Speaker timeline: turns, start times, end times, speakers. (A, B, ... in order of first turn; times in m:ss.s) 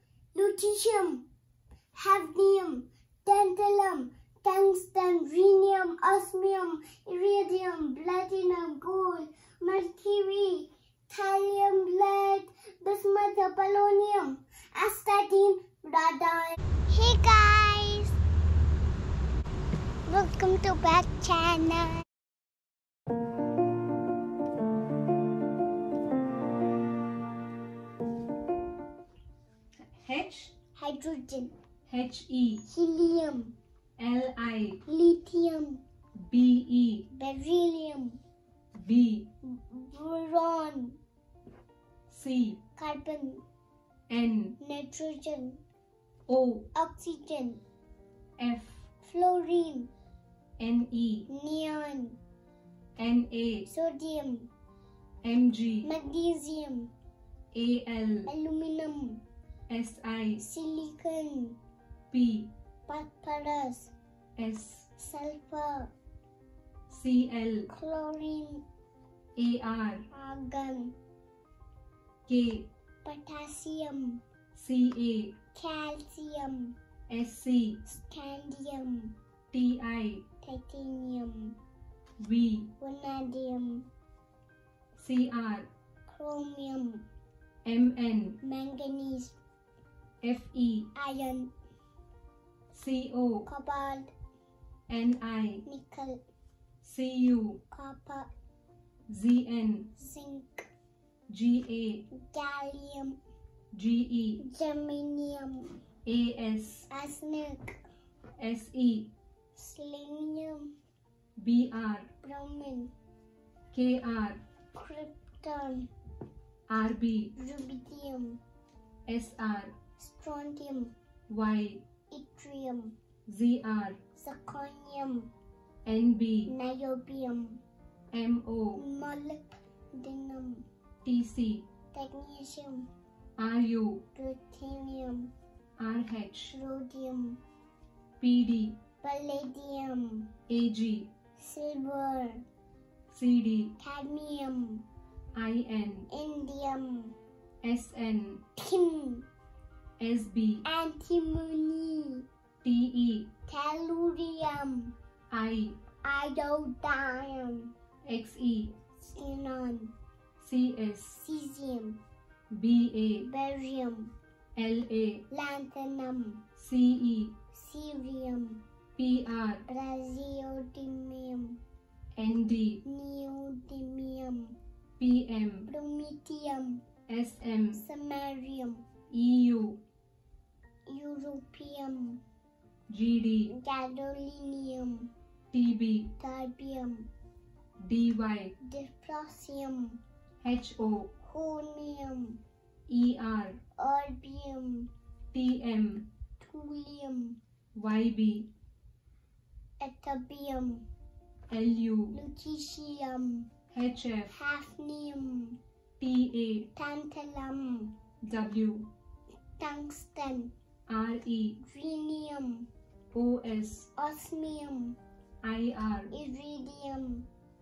0:00.3-0:01.2 A
0:02.0-0:18.2 A
0:20.1-0:22.0 A
0:29.9-0:30.5 B
0:30.8-0:31.5 A
0:31.9-0:32.6 B
0:32.6-0:33.6 A
0:34.0-0:34.8 B
0:34.9-0:35.8 A
0:36.2-0:37.1 B
0:37.1-0:38.2 A
0:38.8-0:39.3 B
0:39.4-0:41.0 A
0:42.1-0:42.6 B
0:42.8-0:43.4 A
0:44.1-0:44.6 B
0:44.6-0:45.6 A
0:46.3-0:46.7 B
0:46.7-0:47.6 A
0:48.4-0:48.9 B
0:49.0-0:49.9 A
0:50.6-0:51.3 B
0:51.3-0:52.2 A
0:53.0-0:53.7 B
0:53.7-0:54.5 A
0:55.2-0:55.9 B
0:55.8-0:56.9 A
0:57.5-0:58.3 B
0:58.3-0:59.2 A
0:59.7-1:00.4 B
1:00.4-1:01.6 A
1:02.1-1:02.5 B
1:02.9-1:03.9 A
1:04.4-1:04.9 B
1:05.0-1:05.9 A
1:06.9-1:07.7 B
1:07.7-1:08.6 A
1:09.4-1:10.0 B
1:10.1-1:11.0 A
1:12.3-1:12.7 B
1:13.0-1:14.2 A
1:14.6-1:15.4 B
1:15.5-1:16.8 A
1:17.1-1:17.8 B
1:17.8-1:19.2 A
1:19.5-1:20.2 B
1:20.4-1:21.6 A
1:22.2-1:22.7 B
1:22.8-1:23.9 A
1:25.0-1:25.7 B
1:26.1-1:27.0 A
1:27.6-1:28.4 B
1:28.4-1:29.4 A
1:30.2-1:30.9 B
1:30.9-1:31.5 A
1:32.7-1:33.5 B
1:33.5-1:34.1 A
1:34.9-1:35.6 B
1:35.6-1:36.2 A
1:36.8-1:37.6 B
1:37.7-1:38.3 A
1:39.1-1:39.9 B
1:40.0-1:40.7 A
1:41.3-1:42.1 B
1:42.1-1:43.2 A
1:43.7-1:44.4 B
1:44.4-1:45.8 A
1:46.0-1:46.9 B
1:46.9-1:47.8 A
1:48.4-1:49.1 B
1:49.6-1:50.7 A
1:51.4-1:52.1 B
1:52.2-1:52.9 A
1:53.7-1:54.4 B
1:54.7-1:55.9 A
1:56.7-1:57.3 B
1:57.4-1:58.4 A
1:59.1-1:59.7 B
2:00.0-2:00.9 A
2:01.3-2:01.8 B
2:02.1-2:03.0 A
2:03.3-2:04.0 B
2:04.2-2:05.3 A
2:05.8-2:06.5 B
2:06.5-2:07.6 A
2:08.1-2:08.8 B
2:08.8-2:10.7 A
2:11.0-2:11.6 B
2:11.9-2:12.9 A
2:13.4-2:14.0 B
2:14.1-2:15.3 A
2:15.8-2:16.5 B
2:16.5-2:17.4 A
2:18.2-2:18.8 B
2:19.0-2:20.3 A
2:20.5-2:21.1 B
2:21.4-2:22.4 A
2:23.1-2:23.8 B
2:23.8-2:24.8 A
2:25.4-2:26.1 B
2:26.1-2:27.2 A
2:27.6-2:28.4 B
2:28.6-2:29.3 A
2:30.0-2:30.6 B
2:30.6-2:32.3 A
2:32.6-2:33.3 B
2:33.5-2:35.0 A
2:35.3-2:35.8 B
2:36.0-2:37.7 A
2:38.0-2:38.7 B
2:39.0-2:39.9 A
2:40.4-2:41.2 B
2:41.2-2:42.0 A
2:42.5-2:43.3 B
2:43.2-2:44.1 A
2:44.6-2:45.2 B
2:45.3-2:46.4 A
2:46.6-2:47.4 B
2:47.5-2:48.6 A
2:49.0-2:49.6 B
2:49.7-2:51.6 A
2:52.2-2:52.8 B
2:52.8-2:54.6 A
2:55.0-2:55.7 B
2:55.7-2:56.8 A
2:57.1-2:57.8 B
2:57.7-2:58.8 A
2:59.1-2:59.8 B
3:00.9-3:02.2 A
3:02.9-3:03.5 B
3:03.5-3:05.1 A
3:05.5-3:06.1 B
3:06.2-3:07.1 A
3:07.8-3:08.5 B
3:08.6-3:10.0 A
3:10.4-3:11.1 B
3:11.2-3:12.4 A
3:12.9-3:13.6 B
3:13.8-3:14.9 A
3:15.3-3:16.1 B
3:16.4-3:17.4 A
3:17.8-3:18.5 B
3:19.8-3:20.8 A
3:21.5-3:22.2 B
3:22.1-3:23.5 A
3:23.7-3:24.3 B
3:24.3-3:25.6 A
3:26.0-3:26.7 B
3:26.8-3:27.9 A
3:28.2-3:28.9 B
3:29.6-3:30.5 A
3:30.9-3:31.6 B
3:31.6-3:32.7 A
3:33.1-3:33.9 B
3:34.0-3:35.0 A
3:35.4-3:36.1 B
3:36.1-3:37.3 A